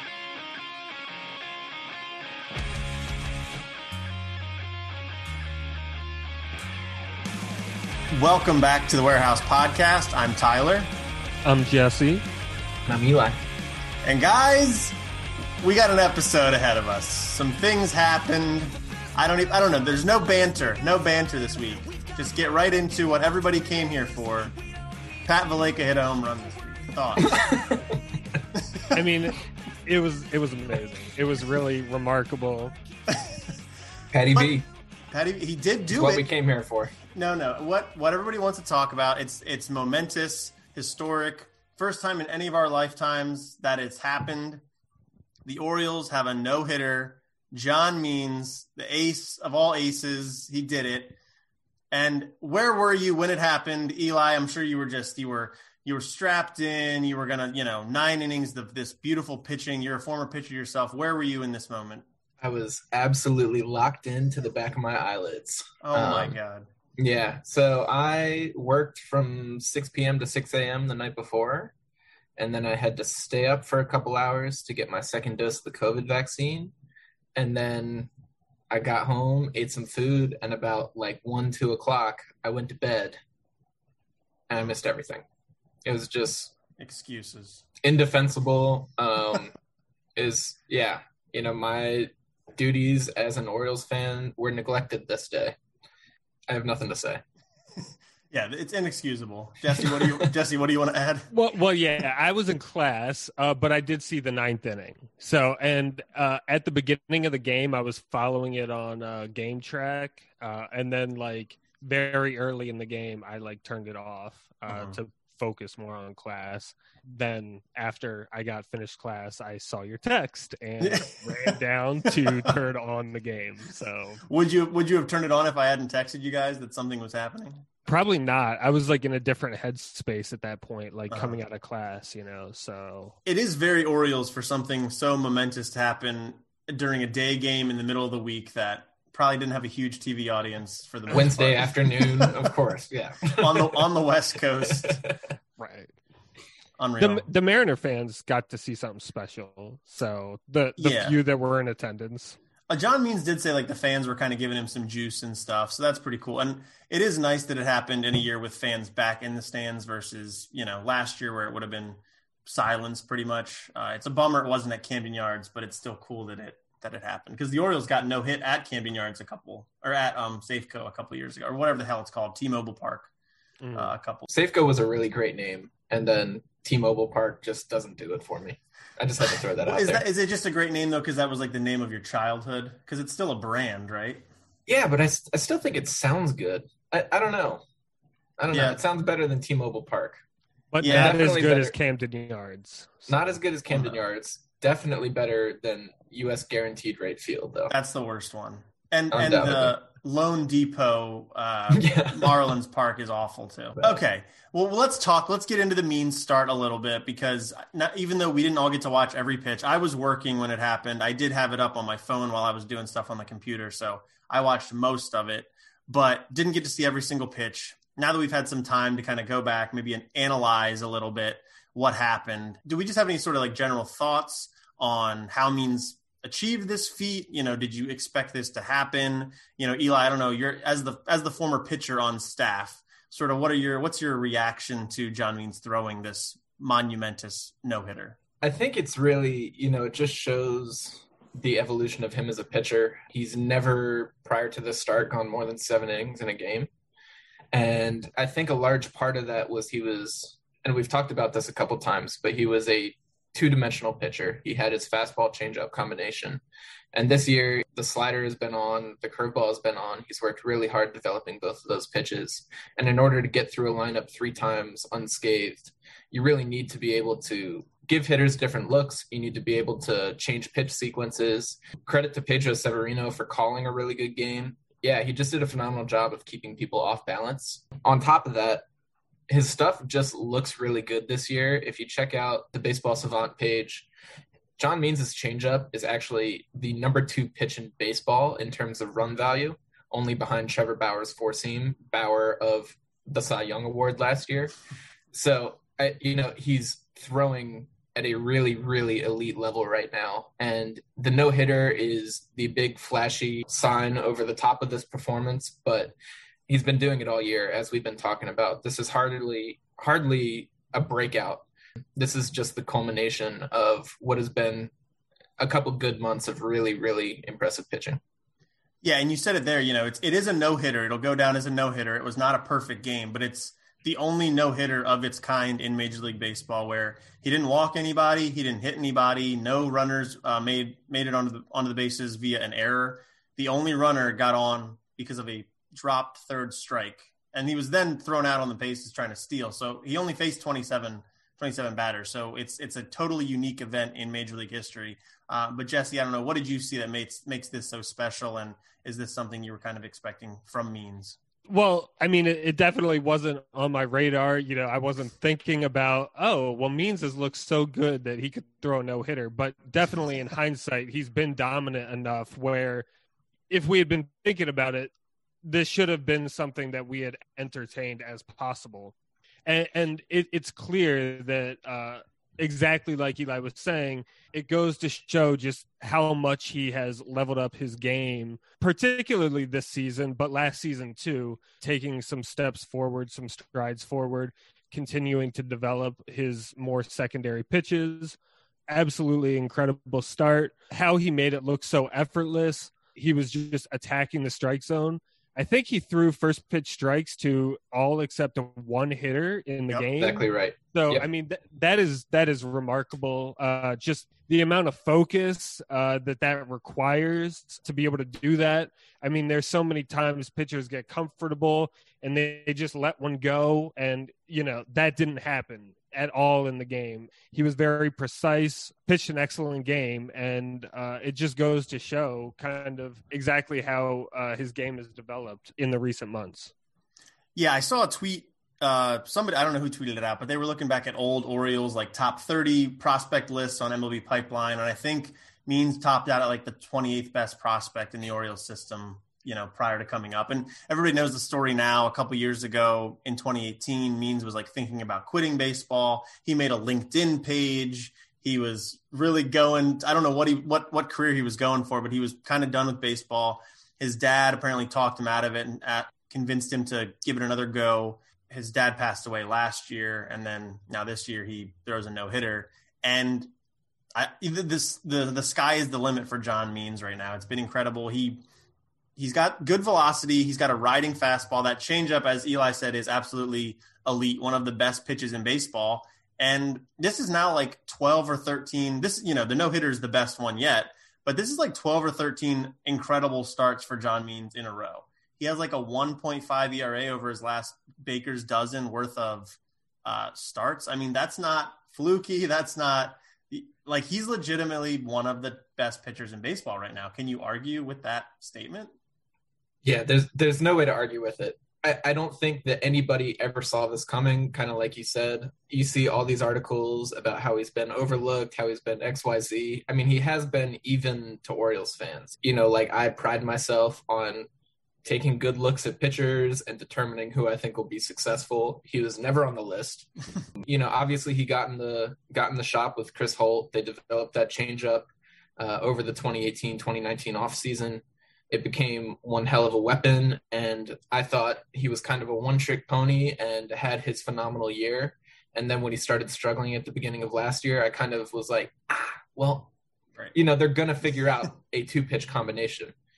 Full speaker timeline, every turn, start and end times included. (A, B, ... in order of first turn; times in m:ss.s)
0:08.1-0:10.9 A
0:11.4-0:12.2 B
0:12.9-0:13.4 C
0:14.0-0:15.0 A
0:15.6-0:24.5 A
0:25.2-0:27.3 A
0:27.2-0:27.9 C
0:28.9-0:32.7 B
0:33.1-0:33.4 A
0:34.1-0:34.7 C
0:34.3-0:36.3 A
0:35.9-0:37.0 C
0:37.1-0:44.6 A
0:45.4-0:51.2 A
0:51.9-1:02.0 A
1:02.4-1:06.4 C
1:05.8-1:06.7 A
1:07.0-1:11.7 C
1:12.4-1:16.7 C
1:17.4-1:18.1 C
1:18.7-1:23.2 C
1:24.5-1:25.2 C
1:25.8-1:26.6 C
1:26.8-1:27.6 A
1:27.8-1:29.5 C
1:30.2-1:35.6 C
1:36.5-1:37.2 C
1:38.3-1:41.3 A
1:41.3-2:04.2 B
1:54.7-1:55.0 A
2:00.8-2:02.5 A
2:04.3-2:07.6 A
2:07.9-2:13.2 B
2:11.1-2:11.4 A
2:13.3-2:22.6 A
2:21.1-2:23.9 C
2:23.4-2:25.0 A
2:24.7-2:25.2 C
2:25.6-2:26.0 B
2:26.8-2:27.3 A
2:27.0-2:32.4 B
2:30.8-2:31.2 A
2:32.7-2:53.1 A
2:53.6-2:53.9 B
2:53.8-2:54.3 A
2:54.3-3:00.0 C
2:59.6-3:04.3 A
3:04.7-3:07.6 C
3:08.4-3:10.2 C
3:08.5-3:08.8 A
3:10.7-3:13.2 B
3:10.8-3:11.2 A
3:10.8-3:11.8 C
3:13.1-3:17.7 C
3:13.7-3:14.0 A
3:17.7-3:58.2 A
3:19.1-3:19.8 C
3:21.7-3:22.5 C
3:58.4-4:06.7 C
4:07.5-4:16.4 C
4:16.9-4:38.6 C
4:39.3-4:43.9 C
4:44.6-4:54.6 C
4:55.1-5:05.9 C
5:06.5-5:11.4 C
5:12.0-5:14.7 C
5:15.4-5:18.0 C
5:18.8-5:51.2 A
5:51.5-6:02.9 B
6:03.5-6:04.9 B
6:05.4-6:08.9 B
6:09.5-6:28.2 B
6:28.7-7:06.5 B
6:39.7-6:41.1 C
7:07.4-7:43.3 A
7:44.0-7:48.2 A
7:49.0-8:18.7 A
8:19.6-8:34.3 C
8:34.8-8:59.5 C
9:00.1-9:02.7 C